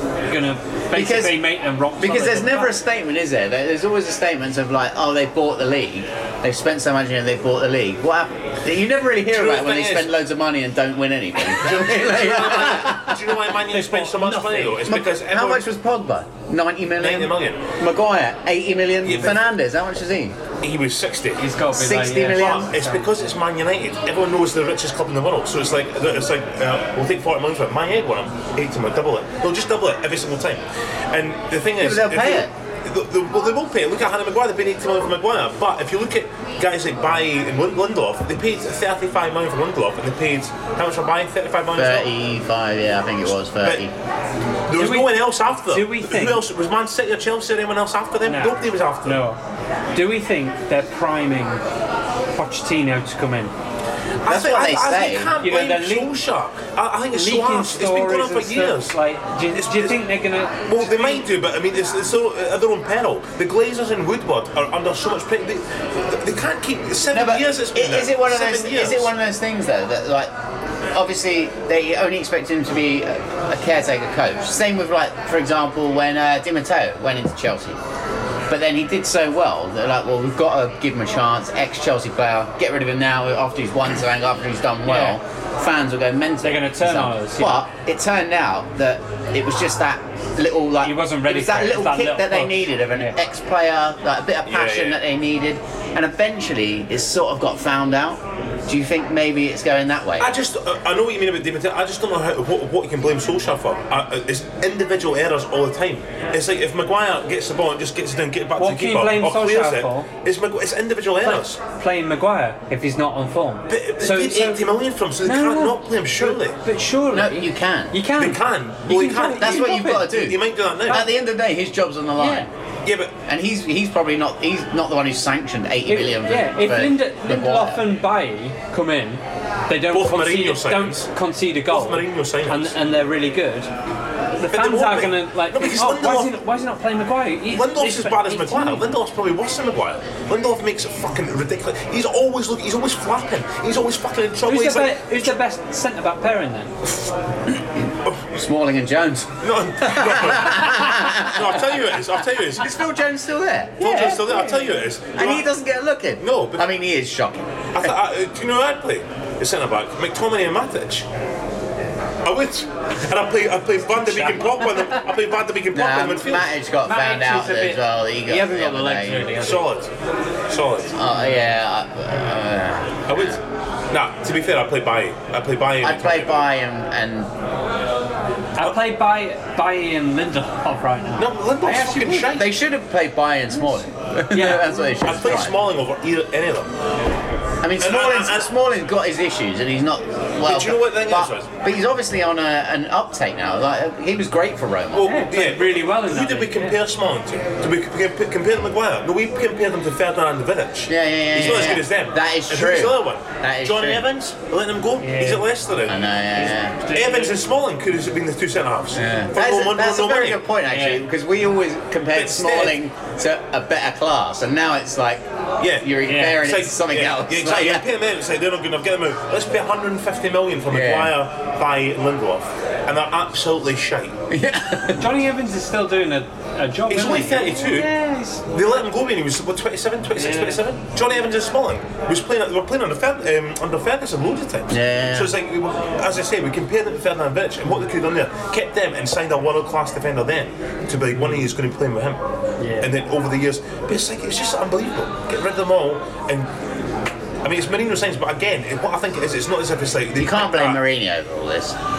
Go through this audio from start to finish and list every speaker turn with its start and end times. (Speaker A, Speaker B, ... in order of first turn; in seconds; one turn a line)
Speaker A: 0.3-2.7
Speaker B: 0.9-13.2
Speaker C: 9.3-10.1
Speaker C: 11.5-15.6
Speaker A: 13.7-14.8
Speaker B: 14.8-20.4
Speaker C: 17.0-17.6
Speaker C: 19.0-19.4
Speaker C: 20.6-21.4
Speaker A: 21.4-23.1
Speaker B: 21.7-22.7
Speaker C: 22.2-42.1
Speaker B: 31.8-32.5
Speaker B: 41.7-43.9
Speaker C: 43.5-43.8
Speaker C: 44.7-49.2
Speaker A: 44.7-46.4
Speaker A: 48.2-49.4
Speaker A: 49.9-51.6
Speaker A: 52.3-53.5
Speaker C: 54.2-59.0
Speaker B: 54.2-55.3
Speaker A: 55.4-56.1
Speaker A: 57.1-61.2
Speaker C: 59.5-60.1
Speaker C: 60.6-69.1
Speaker B: 67.1-70.3
Speaker B: 70.9-77.8
Speaker B: 78.5-100.3
Speaker A: 84.8-85.2
Speaker A: 86.4-87.6
Speaker A: 90.8-93.2
Speaker C: 94.5-95.0
Speaker C: 100.2-111.6
Speaker A: 108.6-110.1
Speaker A: 111.2-114.6
Speaker C: 113.7-116.6
Speaker A: 115.2-120.3
Speaker B: 117.1-118.0
Speaker C: 118.2-121.1
Speaker B: 119.4-122.5
Speaker A: 122.2-122.5
Speaker C: 122.8-123.1
Speaker B: 123.2-127.8
Speaker A: 125.9-133.7
Speaker C: 129.9-131.1
Speaker C: 131.7-132.7
Speaker A: 134.4-138.8
Speaker C: 134.5-136.4
Speaker C: 137.5-145.2
Speaker A: 144.4-146.7
Speaker B: 148.3-151.8
Speaker C: 149.4-152.7
Speaker B: 152.6-154.4
Speaker A: 153.8-154.7
Speaker C: 153.8-155.5
Speaker B: 155.1-157.9
Speaker C: 156.2-156.7
Speaker C: 157.7-161.1
Speaker C: 162.2-166.5
Speaker A: 163.9-165.0
Speaker B: 165.7-169.5
Speaker A: 166.8-169.7
Speaker C: 169.4-169.9
Speaker C: 170.5-170.9
Speaker B: 170.9-173.4
Speaker C: 173.1-176.4
Speaker B: 175.8-177.3
Speaker A: 178.6-182.3
Speaker C: 181.2-182.5
Speaker B: 182.2-185.6
Speaker A: 184.3-184.7
Speaker C: 185.0-186.7
Speaker B: 187.6-195.2
Speaker C: 187.8-188.5
Speaker C: 190.4-191.5
Speaker C: 194.9-206.1
Speaker A: 195.0-196.8
Speaker B: 200.9-204.0
Speaker A: 205.0-205.4
Speaker B: 205.9-206.8
Speaker A: 206.4-207.4
Speaker C: 206.9-210.4
Speaker B: 208.9-215.2
Speaker A: 210.7-211.0
Speaker C: 212.1-212.8
Speaker C: 215.6-224.2
Speaker B: 215.8-217.8
Speaker A: 216.1-216.4
Speaker B: 220.7-221.1
Speaker B: 224.3-225.1
Speaker A: 224.9-228.4
Speaker C: 226.9-227.9
Speaker C: 228.5-242.2
Speaker A: 230.2-230.6
Speaker B: 234.7-235.3
Speaker A: 242.6-242.9
Speaker C: 242.8-246.5
Speaker C: 247.4-250.8
Speaker B: 250.2-251.8